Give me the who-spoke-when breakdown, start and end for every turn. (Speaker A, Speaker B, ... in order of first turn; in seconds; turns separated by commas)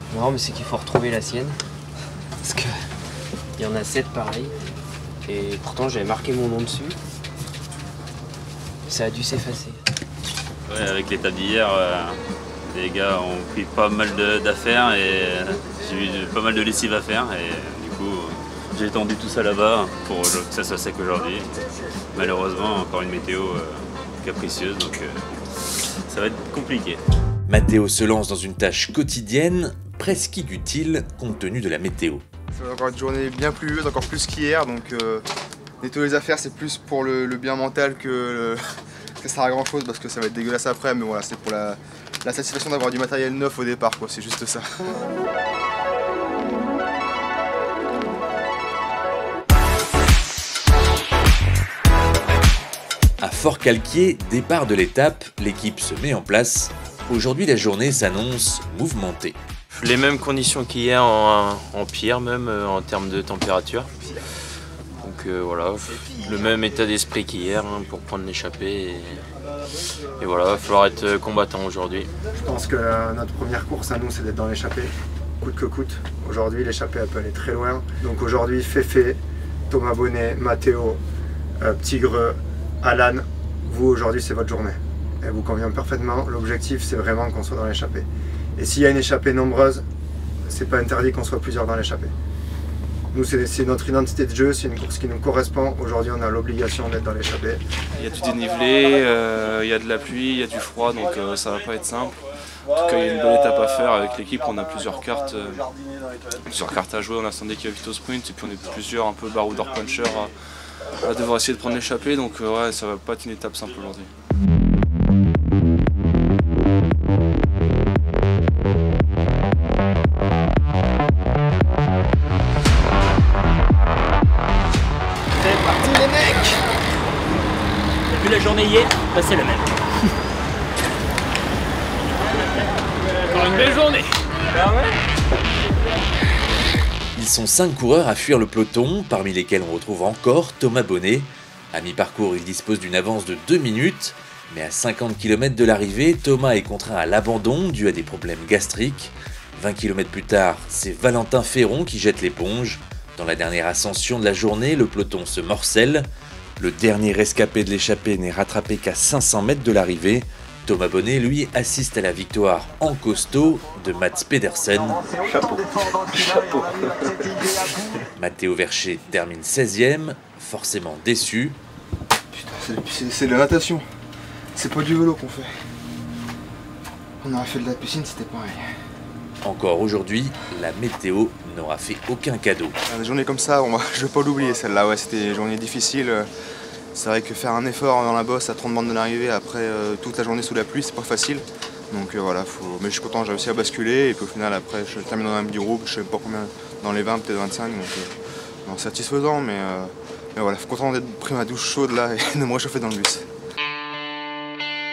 Speaker A: 0.1-1.6, Speaker A: 2.4-2.7, Speaker A: 3.6-4.5, Speaker A: 5.3-7.0, Speaker A: 8.9-9.8, Speaker B: 10.7-21.6, Speaker B: 22.1-25.2, Speaker B: 26.1-27.0, Speaker C: 27.5-32.2, Speaker D: 32.5-35.2, Speaker D: 35.8-38.6, Speaker D: 39.2-44.6, Speaker C: 53.2-59.4, Speaker E: 59.7-63.9, Speaker E: 65.0-69.2, Speaker E: 70.2-72.1, Speaker F: 72.4-81.0, Speaker F: 81.6-89.8, Speaker F: 90.5-92.1, Speaker F: 93.1-97.6, Speaker G: 98.0-102.2, Speaker G: 102.7-105.6, Speaker G: 106.4-110.3, Speaker G: 110.9-114.1, Speaker H: 128.2-129.6, Speaker H: 133.3-134.0, Speaker C: 137.2-165.2, Speaker C: 168.2-171.6, Speaker D: 172.3-173.8, Speaker D: 174.6-175.5, Speaker D: 177.2-178.6, Speaker C: 179.4-182.8, Speaker D: 182.9-186.3, Speaker D: 186.9-198.1, Speaker D: 198.7-203.3